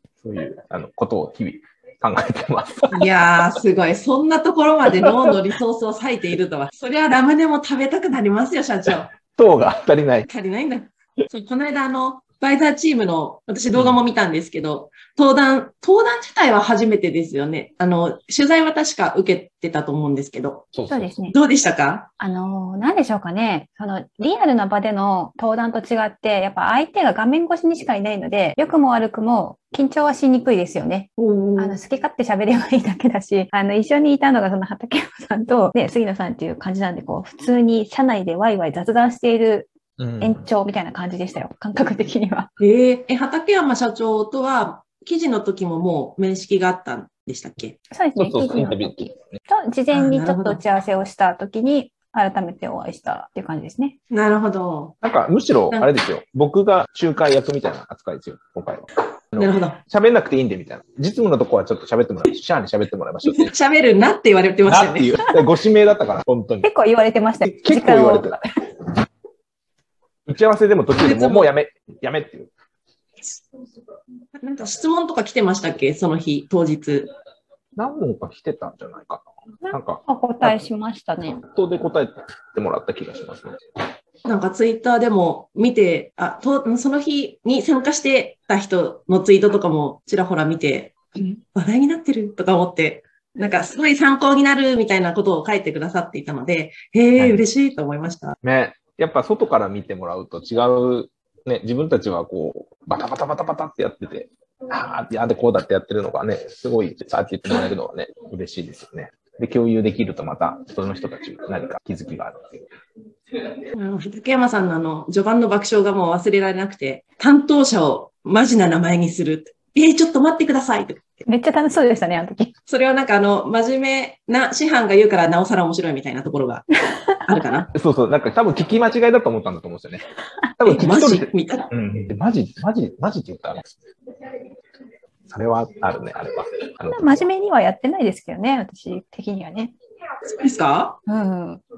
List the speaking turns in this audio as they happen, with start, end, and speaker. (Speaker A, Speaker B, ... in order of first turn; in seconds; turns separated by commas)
Speaker A: 0.2-3.1, Speaker B: 2.9-9.1, Speaker A: 4.9-5.3, Speaker A: 8.9-10.3, Speaker B: 10.3-20.7, Speaker A: 13.7-14.0, Speaker A: 20.7-21.2, Speaker C: 20.9-21.3, Speaker B: 21.3-22.1, Speaker C: 22.2-42.5, Speaker B: 31.2-31.8, Speaker A: 40.0-40.4, Speaker B: 42.6-47.8, Speaker C: 47.9-54.0, Speaker A: 48.2-49.4, Speaker B: 49.9-50.6, Speaker B: 54.1-54.9, Speaker A: 55.0-63.5, Speaker B: 59.4-59.8, Speaker B: 63.2-65.2, Speaker A: 64.6-66.7, Speaker C: 66.6-68.3, Speaker A: 67.4-68.4, Speaker A: 70.2-72.5, Speaker B: 70.9-71.5, Speaker B: 74.4-77.1, Speaker A: 77.8-80.6, Speaker C: 80.0-81.4, Speaker A: 81.4-83.5, Speaker B: 84.2-98.3, Speaker A: 97.2-97.4, Speaker A: 98.4-112.7, Speaker B: 113.7-121.0, Speaker C: 121.2-122.5, Speaker B: 122.7-126.7, Speaker B: 127.2-127.7, Speaker A: 127.7-130.0, Speaker A: 130.6-133.7, Speaker B: 130.6-131.7, Speaker A: 135.3-137.2, Speaker C: 136.9-139.7, Speaker B: 140.2-141.0, Speaker C: 141.1-141.6